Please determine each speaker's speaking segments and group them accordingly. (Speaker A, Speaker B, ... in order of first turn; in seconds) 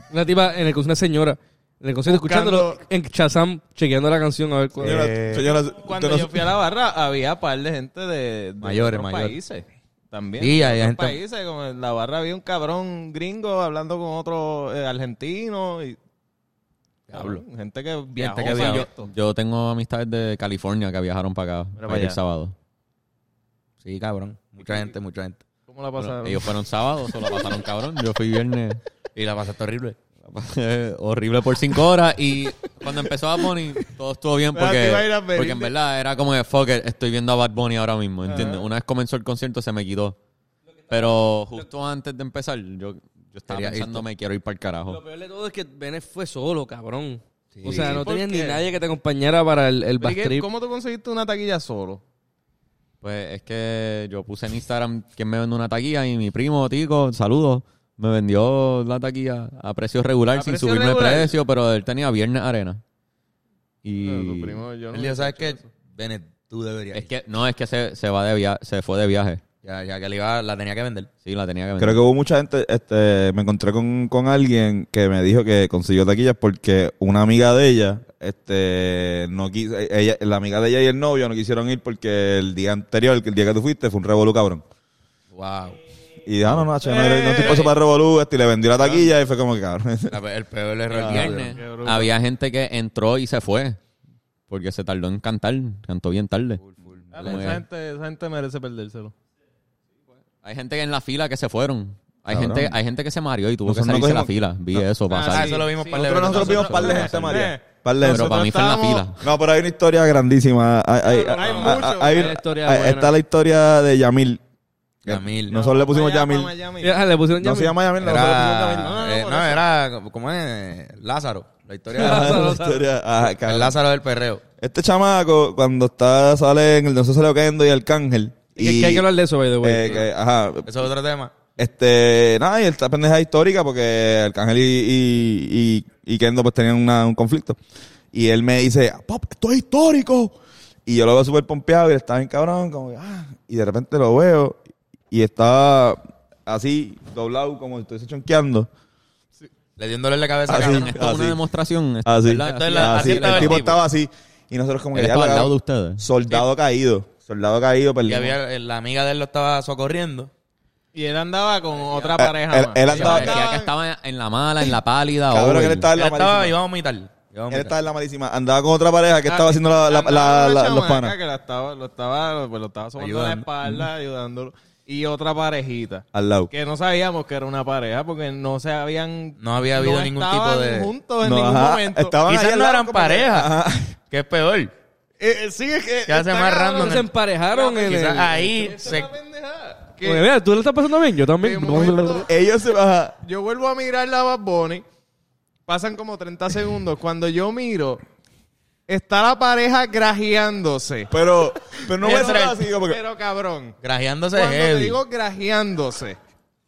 Speaker A: 0.1-5.1, 44.9-50.5, 112.0-113.1, 116.8-117.8, 122.0-122.8, 128.6-130.1, 186.7-188.5, 190.0-192.2
Speaker B: 2.1-2.8, 4.9-16.0, 17.1-19.1, 21.8-22.2, 25.7-26.5, 34.5-35.7, 38.3-38.6, 47.6-48.6, 50.0-52.0, 60.3-61.3, 64.0-65.7, 86.8-87.7, 88.8-89.1, 91.5-92.1, 97.1-99.1, 105.1-109.1, 111.1-112.4, 115.5-117.1, 118.8-119.7, 160.9-163.7, 169.3-182.2, 185.2-190.3, 191.4-192.3, 193.2-194.8, 195.7-198.0, 198.9-201.1, 201.7-203.8, 204.3-206.2
Speaker C: 4.8-6.5, 71.8-84.6, 86.3-90.2, 91.0-91.3, 102.3-102.8, 103.7-104.8, 105.9-108.4, 109.2-114.4, 115.0-116.5, 117.4-119.0, 122.0-123.8, 124.6-129.1, 129.6-130.9, 131.6-137.6, 138.1-140.3, 140.9-144.6, 145.1-148.7, 150.5-151.4, 152.1-158.4, 162.2-163.4, 165.3-166.6, 167.5-171.2, 176.1-176.5, 181.2-183.9, 191.7-193.2, 201.1-203.0
Speaker D: 8.6-9.4, 10.4-11.2, 17.1-17.4, 18.2-18.9, 23.8-25.4, 29.1-30.0, 43.5-44.0, 47.5-48.1, 64.9-67.1, 69.6-71.1, 85.3-85.8, 90.1-91.6, 96.7-97.4, 105.2-107.5, 111.4-111.7, 115.1-115.6, 118.0-122.6, 123.3-124.4, 130.7-131.4, 149.8-150.9, 152.4-153.8, 158.1-160.3, 162.9-163.3, 166.0-167.7, 173.0-173.5, 179.4-180.9, 182.3-183.5, 184.1-184.7, 186.1-187.1, 187.8-189.1, 202.0-202.6, 203.8-205.0
Speaker E: 18.4-22.5, 26.0-28.8, 30.2-40.2, 40.9-45.0, 53.0-62.8, 63.8-64.6, 66.9-69.4, 71.2-72.0, 90.9-93.8, 94.5-96.6, 97.2-97.6, 100.4-105.7, 106.3-107.0, 108.0-109.3, 150.5-153.6, 154.9-156.1, 162.9-165.9